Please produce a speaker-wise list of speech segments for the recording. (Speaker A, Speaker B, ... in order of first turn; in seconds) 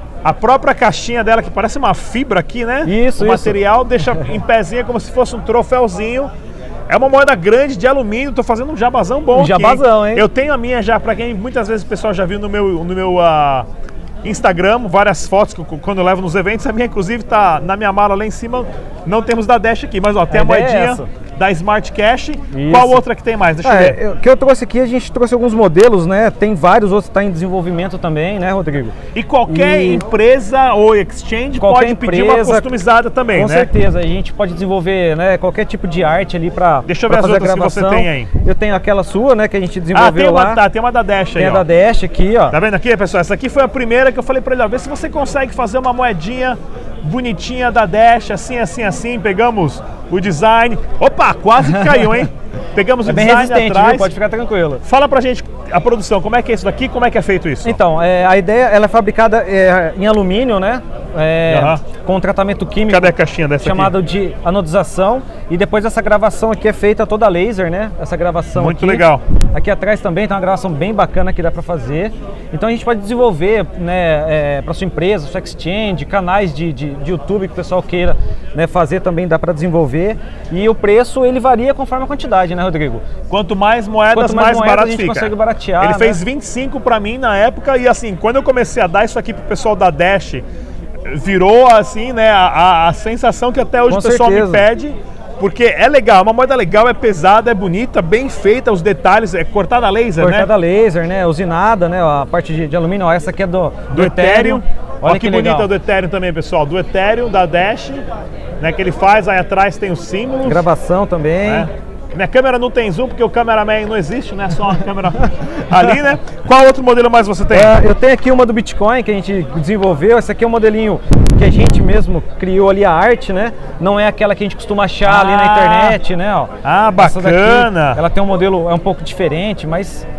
Speaker A: 0.2-6.3, 6.9-13.7, 14.2-24.0, 29.1-33.7, 36.9-38.3, 39.9-41.6, 42.5-54.1, 54.8-57.8, 61.5-61.8, 62.9-63.9, 68.5-69.2, 83.3-90.4, 91.1-100.5, 103.9-108.0, 108.6-110.7, 111.4-117.7, 125.0-126.0, 126.6-128.0
Speaker B: 2.8-3.6, 9.3-10.2, 20.3-21.1, 22.5-23.0, 23.6-28.9, 29.5-30.0, 31.6-32.7, 33.3-40.6, 41.4-42.6, 51.6-52.2, 53.0-54.8, 57.6-83.1, 84.1-86.2, 93.9-94.7, 100.2-105.7, 110.4-111.7, 117.5-130.1